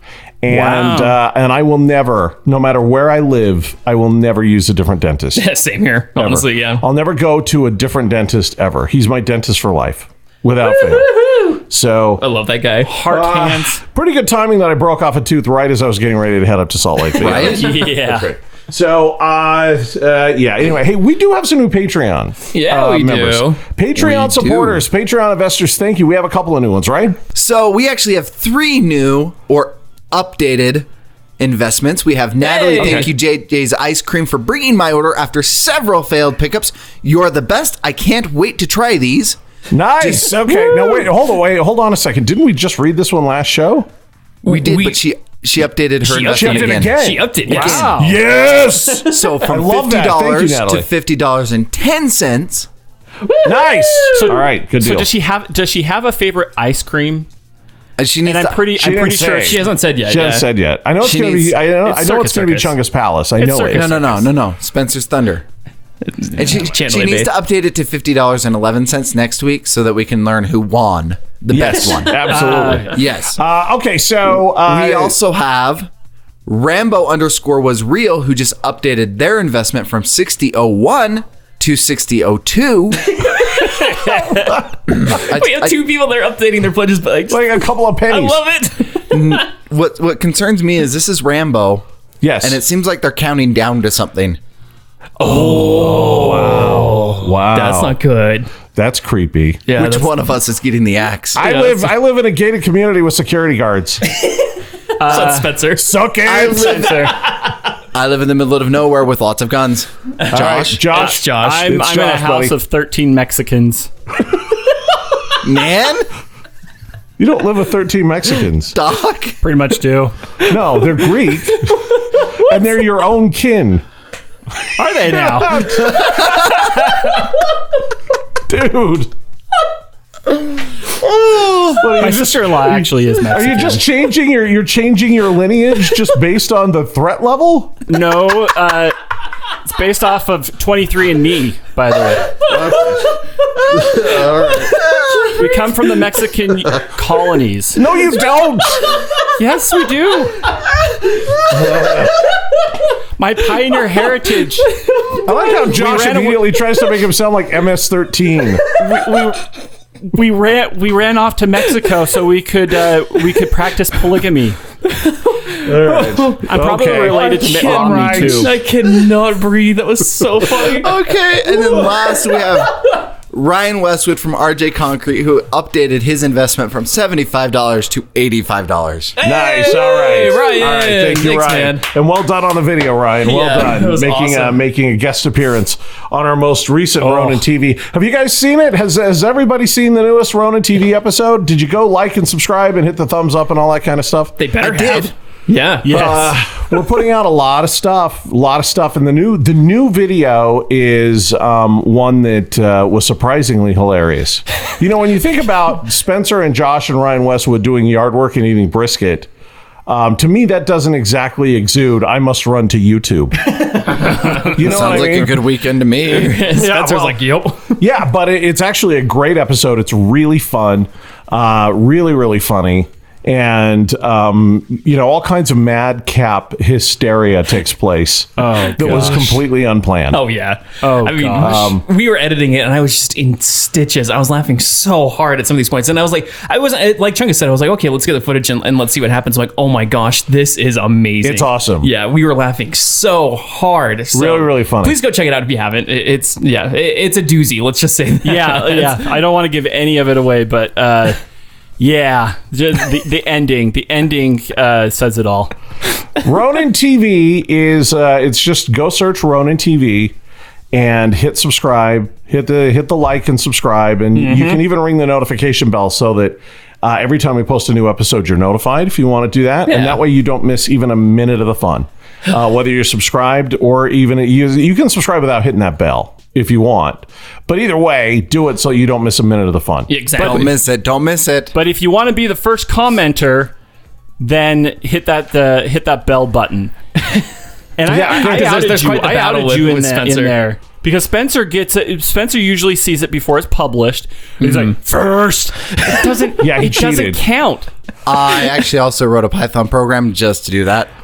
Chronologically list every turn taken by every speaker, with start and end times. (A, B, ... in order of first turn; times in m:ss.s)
0:00.4-0:05.4 A
0:00.5-0:01.2 B
0:05.4-0:06.8 C
0:06.2-0:12.2 A
0:10.8-0:11.6 C
0:12.2-0:12.9 C
0:12.8-0:13.8 B
0:13.0-0:27.2 A
0:17.2-0:17.7 D
0:17.3-0:18.3 B
0:22.5-0:23.6 C
0:24.0-0:24.8 D
0:27.3-0:30.9 D
0:31.4-0:39.4 D
0:32.4-0:33.1 C
0:32.7-0:33.1 A
0:39.7-0:43.9 A
0:40.0-0:40.3 D
0:44.4-0:45.0 C
0:44.4-0:46.9 D
0:46.0-0:47.9 C
0:46.3-0:50.9 A
0:47.5-0:48.1 D
0:47.5-0:48.2 B
0:49.0-0:52.7 D
0:53.2-0:54.2 C
0:53.4-0:55.1 A
0:54.1-0:57.3 B
0:58.0-0:58.7 D
0:58.2-0:59.6 B
0:58.7-1:04.0 A
0:59.4-1:00.5 C
1:01.0-1:01.6 D
1:01.8-1:02.7 B
1:03.4-1:04.3 C
1:03.7-1:05.4 D
1:06.1-1:07.3 C
1:06.3-1:13.4 D
1:11.5-1:15.2 A
1:11.5-1:12.1 C
1:12.3-1:13.0 B
1:14.6-1:15.9 D
1:16.4-1:23.3 D
1:23.1-1:23.8 C
1:23.7-1:24.5 B
1:24.9-1:25.8 D
1:25.0-1:29.4 C
1:27.3-1:28.4 A
1:29.1-1:31.8 D
1:32.2-1:32.6 A
1:32.4-1:34.4 D
1:35.2-1:38.5 C
1:35.2-1:38.0 A
1:38.7-1:39.7 A
1:39.7-1:40.3 C
1:39.7-1:41.4 D
1:41.4-1:44.0 A
1:41.4-1:41.9 C
1:45.0-1:45.6 B
1:45.0-1:45.9 C
1:45.8-1:47.3 A
1:46.2-1:47.2 B
1:47.9-1:50.8 D
1:50.3-1:52.6 A
1:50.9-1:51.8 C
1:51.0-1:53.9 B
1:55.4-1:56.1 D
1:57.2-1:58.7 A
1:58.7-1:59.4 D
1:59.4-2:00.2 B
2:00.4-2:03.8 A
2:04.8-2:06.7 B
2:05.0-2:07.2 A
2:08.5-2:09.1 A
2:11.1-2:11.7 D
2:11.8-2:17.8 A
2:11.9-2:13.8 B
2:17.9-2:18.9 B
2:19.6-2:22.4 B
2:22.4-2:23.1 A
2:23.7-2:25.0 A
2:25.3-2:27.8 B
2:27.7-2:28.9 A
2:29.4-2:30.4 B
2:31.5-2:32.1 A
2:33.2-2:34.7 B
2:35.2-2:39.3 A
2:35.6-2:36.5 B
2:38.8-2:39.3 B
2:40.1-2:44.6 B
2:44.9-2:52.5 C
2:45.6-2:48.6 A
2:46.4-2:48.5 B
2:50.7-2:59.1 D
2:59.2-3:01.8 C
2:59.2-3:14.4 A
3:03.2-3:04.6 C
3:07.0-3:07.4 B
3:14.4-3:16.1 C
3:14.6-3:15.1 D
3:15.8-3:16.4 B
3:15.9-3:29.3 A
3:29.9-3:35.5 A
3:33.5-3:34.5 C
3:34.3-3:36.5 D
3:36.0-3:37.8 C
3:36.5-3:37.2 A
3:37.8-3:50.2 A
3:48.4-3:49.4 B
3:50.1-4:09.0 C
3:50.8-3:51.6 B
3:51.4-3:51.8 A
4:01.2-4:01.9 A
4:04.1-4:05.0 A
4:08.2-4:11.2 B
4:11.8-4:15.5 B
4:16.2-4:20.1 A
4:20.7-4:39.9 A
4:24.1-4:24.6 C
4:29.7-4:30.0 C
4:39.9-4:40.5 C
4:40.2-4:40.5 B
4:40.2-4:41.5 D
4:41.5-4:43.5 B
4:44.2-4:46.7 B
4:47.8-4:57.7 B
4:47.9-4:48.5 A
4:48.0-4:50.4 C
4:54.4-4:54.7 C
4:56.4-4:57.2 A
4:58.0-5:00.9 D